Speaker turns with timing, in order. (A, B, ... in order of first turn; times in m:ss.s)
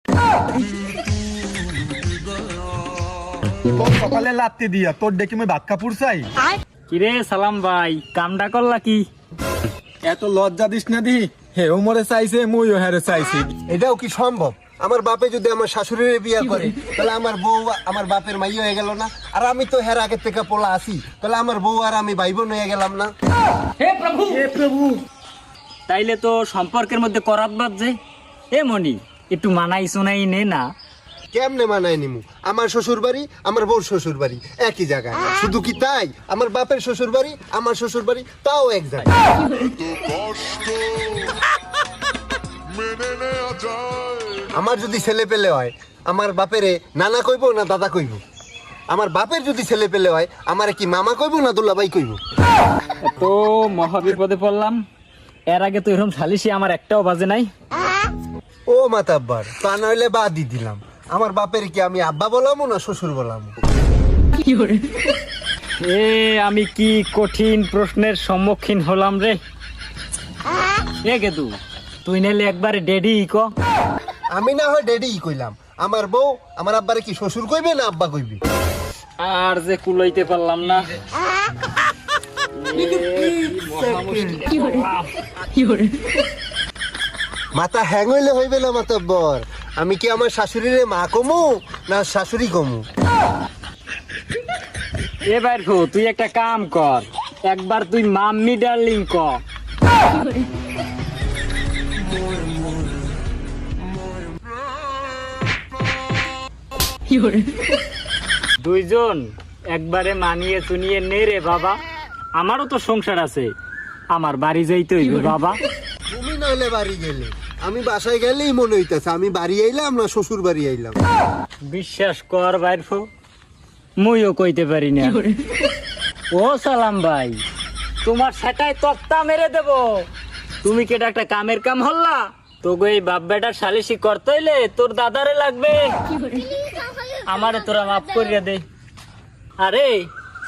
0:03.6-0:06.3 A
0:06.9-0:09.0 B
0:10.0-0:13.5 A
0:13.7-0:23.1 C
0:23.8-0:25.0 B
0:25.9-0:28.0 B
0:28.5-0:30.6 B
0:31.3-0:39.1 C
0:44.5-0:48.2 C
0:48.9-0:52.2 C
0:53.0-0:54.8 B
0:55.5-0:57.5 B
0:58.7-1:03.6 C
1:05.8-1:09.4 B
1:11.0-1:13.5 B
1:14.3-1:18.4 C
1:19.2-1:20.9 B
1:22.6-1:25.1 B
1:27.5-1:32.8 C
1:35.3-1:39.4 B
1:48.6-1:51.8 B
1:52.4-1:53.5 B
1:54.1-1:55.6 B
1:56.1-2:01.0 C
2:01.7-2:03.0 B
2:04.0-2:05.2 B
2:06.3-2:07.4 B
2:08.0-2:10.0 B
2:10.6-2:16.0 B
2:17.3-2:18.6 B
2:19.6-2:20.1 B